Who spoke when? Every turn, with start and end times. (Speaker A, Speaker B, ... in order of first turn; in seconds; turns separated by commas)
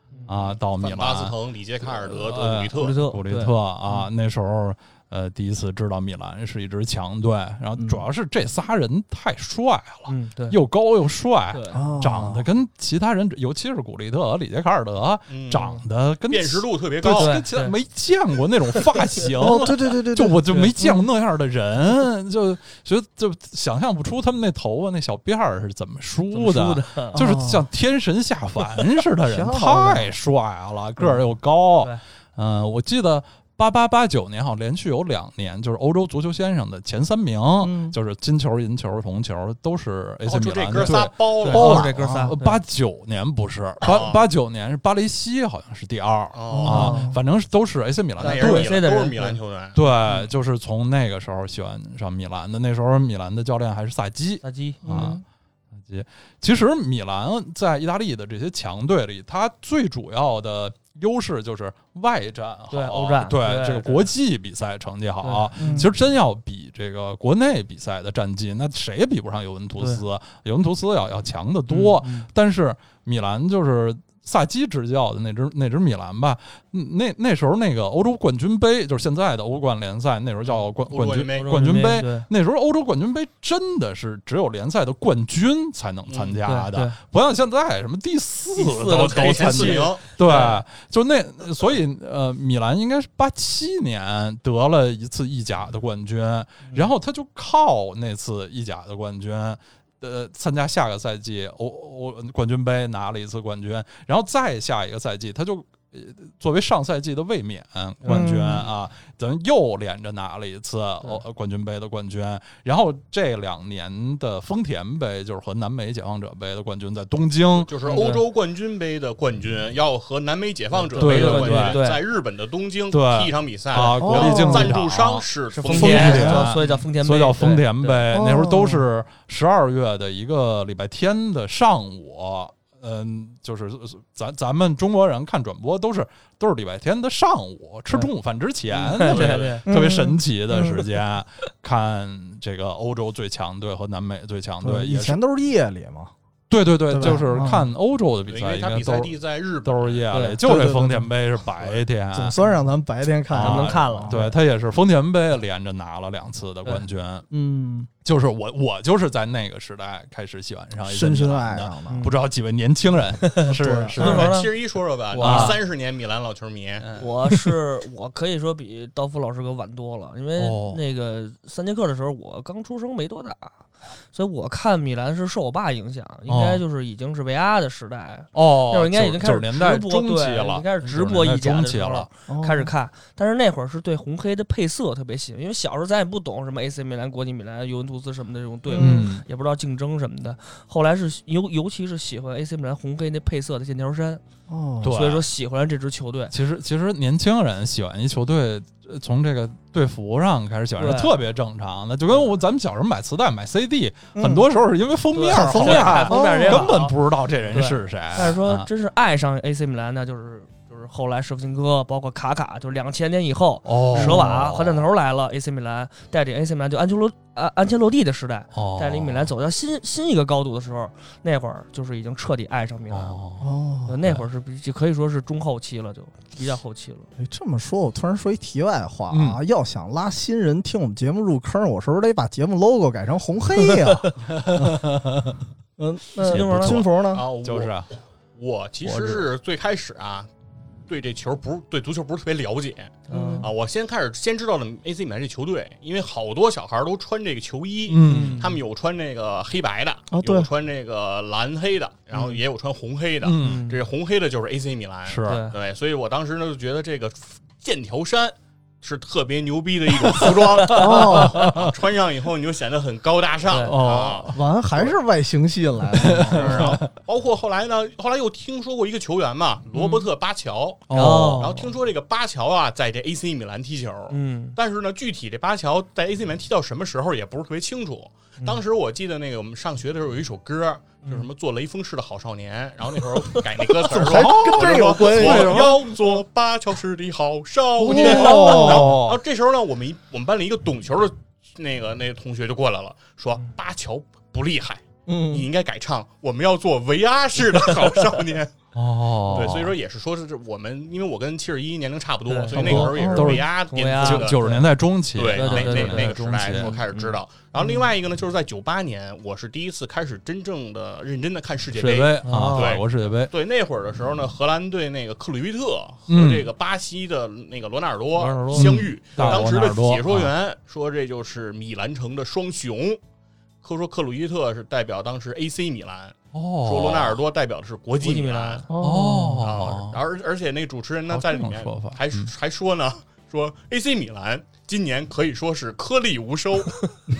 Speaker A: 0.3-48.8, Speaker B: 0.7-3.0, Speaker C: 2.8-4.1, Speaker D: 7.8-8.1, Speaker C: 10.1-10.6, Speaker C: 11.5-11.8, Speaker D: 11.7-12.4, Speaker B: 15.3-17.4, Speaker C: 17.1-17.8, Speaker D: 19.4-21.1, Speaker C: 26.3-27.2, Speaker D: 27.1-27.6, Speaker D: 29.2-30.1, Speaker D: 37.6-38.0, Speaker B: 40.2-41.9, Speaker C: 40.8-42.6, Speaker D: 41.5-42.3, Speaker B: 43.8-44.2, Speaker B: 46.3-46.8, Speaker D: 46.5-47.2, Speaker C: 46.6-47.1, Speaker B: 48.2-49.8, Speaker C: 48.2-49.4, Speaker A: 49.7-55.2, Speaker C: 54.4-55.2, Speaker D: 54.8-55.2, Speaker A: 55.8-117.7, Speaker C: 62.7-64.1, Speaker C: 65.2-65.9, Speaker D: 65.6-65.9, Speaker C: 71.7-72.3, Speaker B: 80.5-81.7, Speaker C: 81.3-82.3, Speaker B: 86.1-86.4, Speaker C: 86.4-87.0, Speaker B: 88.6-90.1, Speaker C: 89.0-90.6, Speaker C: 108.0-108.7, Speaker B: 117.6-126.8, Speaker C: 117.8-118.2, Speaker C: 120.8-122.0, Speaker A: 121.0-121.8, Speaker A: 122.9-145.2, Speaker D: 124.0-124.7, Speaker C: 125.5-128.1, Speaker D: 125.9-126.5, Speaker D: 128.1-128.8, Speaker B: 138.7-139.6, Speaker C: 138.8-139.8, Speaker D: 139.7-140.2, Speaker D: 144.6-146.1, Speaker A: 146.5-152.3, Speaker D: 146.9-147.7, Speaker B: 148.3-150.1, Speaker C: 150.1-150.7, Speaker D: 150.4-151.1, Speaker B: 151.6-151.8, Speaker D: 152.1-154.2, Speaker A: 153.3-157.2, Speaker C: 153.4-154.3, Speaker D: 157.3-157.9, Speaker A: 158.0-164.4, Speaker D: 160.8-162.0, Speaker C: 161.8-162.2, Speaker C: 163.2-164.5, Speaker D: 163.5-164.0, Speaker B: 163.9-167.0, Speaker C: 165.1-165.6, Speaker A: 165.1-165.6, Speaker A: 166.8-167.3, Speaker C: 167.0-173.5, Speaker A: 170.3-170.8, Speaker C: 174.1-194.2, Speaker A: 176.3-176.6, Speaker A: 178.3-182.1, Speaker D: 182.3-182.7, Speaker D: 188.7-189.1, Speaker A: 188.7-189.2, Speaker D: 194.5-195.0, Speaker A: 194.8-195.3, Speaker C: 194.8-196.3, Speaker A: 196.3-208.7, Speaker C: 200.8-201.1, Speaker D: 204.2-204.4, Speaker C: 205.1-206.9, Speaker D: 205.3-206.8, Speaker C: 207.5-223.2, Speaker A: 213.6-214.9, Speaker D: 213.9-214.3, Speaker A: 218.5-219.3, Speaker A: 222.9-223.5, Speaker D: 223.4-224.1, Speaker C: 223.9-227.1, Speaker D: 227.2-234.1, Speaker A: 229.1-229.4, Speaker C: 233.6-234.1, Speaker A: 234.3-235.3, Speaker D: 235.8-237.2, Speaker C: 236.2-236.8, Speaker A: 236.2-237.9, Speaker B: 237.1-237.8, Speaker B: 238.3-240.3, Speaker A: 238.8-239.2, Speaker B: 240.9-264.9, Speaker C: 243.1-243.5, Speaker D: 243.1-243.5, Speaker A: 247.9-248.5, Speaker C: 248.0-248.6, Speaker D: 250.1-250.5, Speaker C: 252.1-252.4, Speaker A: 253.2-253.7, Speaker C: 253.4-253.8, Speaker A: 255.1-255.4, Speaker C: 255.2-255.6, Speaker C: 260.1-261.0, Speaker A: 260.1-261.7, Speaker D: 260.7-261.6, Speaker C: 263.5-263.8, Speaker A: 263.5-264.4, Speaker D: 264.3-266.8, Speaker A: 266.0-266.9, Speaker B: 266.3-298.5, Speaker C: 269.7-270.1, Speaker A: 270.9-271.5, Speaker C: 270.9-271.7, Speaker C: 274.1-274.6, Speaker D: 283.8-285.9, Speaker A: 284.0-285.8, Speaker D: 287.8-289.0, Speaker A: 287.9-289.2, Speaker C: 288.0-288.5, Speaker D: 295.1-295.5, Speaker A: 298.7-299.7, Speaker B: 299.3-304.6, Speaker C: 302.3-304.7, Speaker A: 302.5-306.8, Speaker D: 302.6-303.4, Speaker B: 305.1-323.0, Speaker C: 305.3-307.8, Speaker A: 311.7-313.3, Speaker C: 312.2-312.8, Speaker A: 316.1-316.5, Speaker C: 318.2-319.4, Speaker A: 318.5-320.3, Speaker B: 323.6-328.6, Speaker A: 326.3-327.1, Speaker C: 328.0-328.7, Speaker D: 328.7-329.4, Speaker A: 328.8-330.0, Speaker B: 329.4-336.9, Speaker A: 331.1-332.3